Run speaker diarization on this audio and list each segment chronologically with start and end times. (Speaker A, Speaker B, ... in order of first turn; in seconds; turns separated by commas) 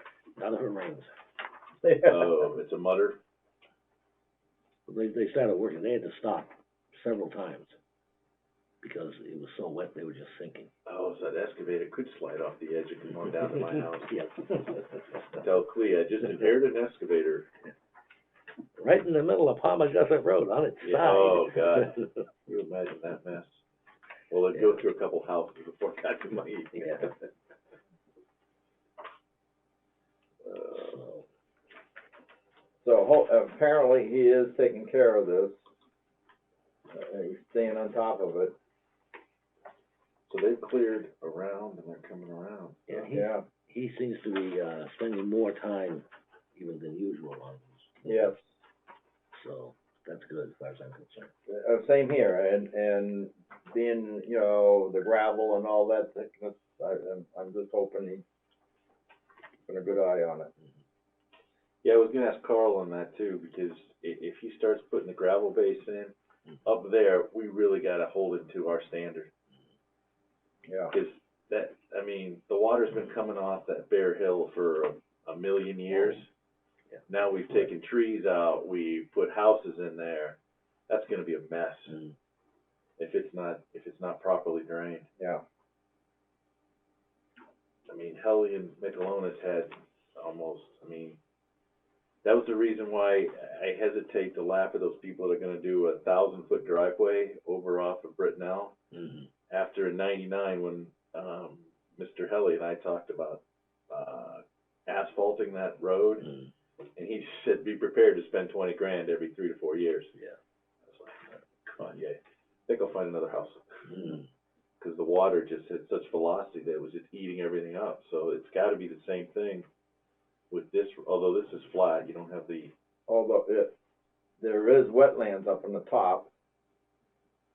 Speaker A: 0.4-1.1, Speaker B: 1.8-2.5, Speaker C: 2.0-3.2, Speaker A: 4.9-7.8, Speaker A: 8.8-10.7, Speaker C: 10.9-14.1, Speaker A: 13.4-15.5, Speaker C: 15.4-17.5, Speaker A: 18.8-22.1, Speaker C: 20.8-23.6, Speaker C: 24.3-27.3, Speaker A: 26.8-27.1, Speaker C: 30.4-31.0, Speaker A: 30.7-31.2, Speaker B: 32.8-35.6, Speaker B: 36.9-38.5, Speaker C: 40.3-43.1, Speaker A: 42.9-46.0, Speaker B: 43.0-43.5, Speaker A: 46.5-48.3, Speaker B: 48.0-48.5, Speaker A: 49.3-51.3, Speaker B: 51.5-58.2, Speaker B: 59.6-60.5, Speaker C: 61.8-69.3, Speaker B: 70.7-71.0, Speaker C: 70.9-76.3, Speaker C: 77.1-80.4, Speaker C: 80.9-82.0, Speaker A: 81.9-82.1, Speaker C: 83.0-85.1, Speaker B: 85.2-85.4, Speaker C: 87.9-91.2, Speaker C: 92.2-98.8, Speaker A: 98.9-99.3, Speaker C: 99.5-106.3, Speaker A: 106.2-106.5, Speaker C: 107.0-110.1, Speaker C: 110.9-113.9, Speaker A: 113.9-114.3, Speaker C: 114.8-119.7, Speaker C: 120.5-122.7, Speaker B: 123.1-123.7, Speaker B: 124.4-126.3